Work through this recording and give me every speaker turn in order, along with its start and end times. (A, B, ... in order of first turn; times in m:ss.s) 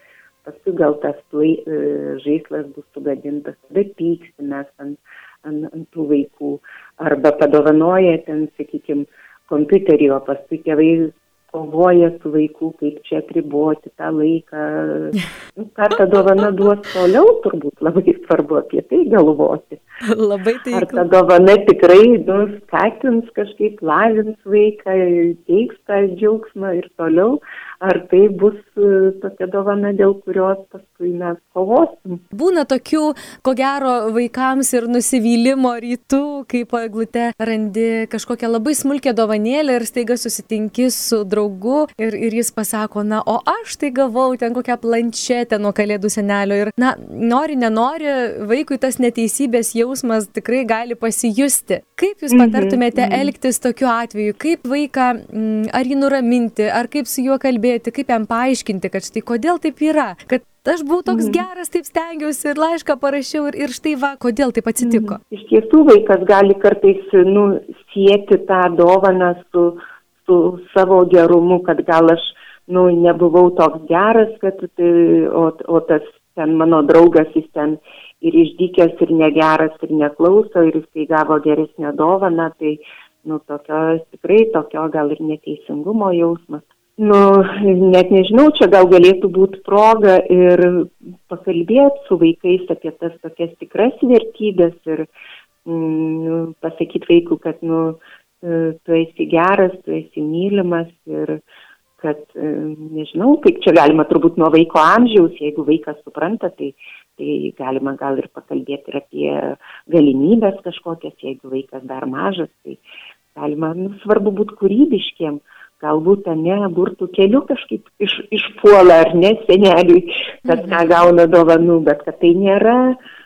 0:00.4-0:19.8 A
0:20.0-0:21.0 B
0:20.7-0:32.2 A
0:32.3-1:05.2 B
0:52.3-0:53.3 A
1:01.1-1:01.4 A
1:04.8-1:35.1 A
1:35.6-1:41.4 A
1:42.0-1:52.8 A
1:53.4-2:03.0 A
2:00.5-2:00.8 B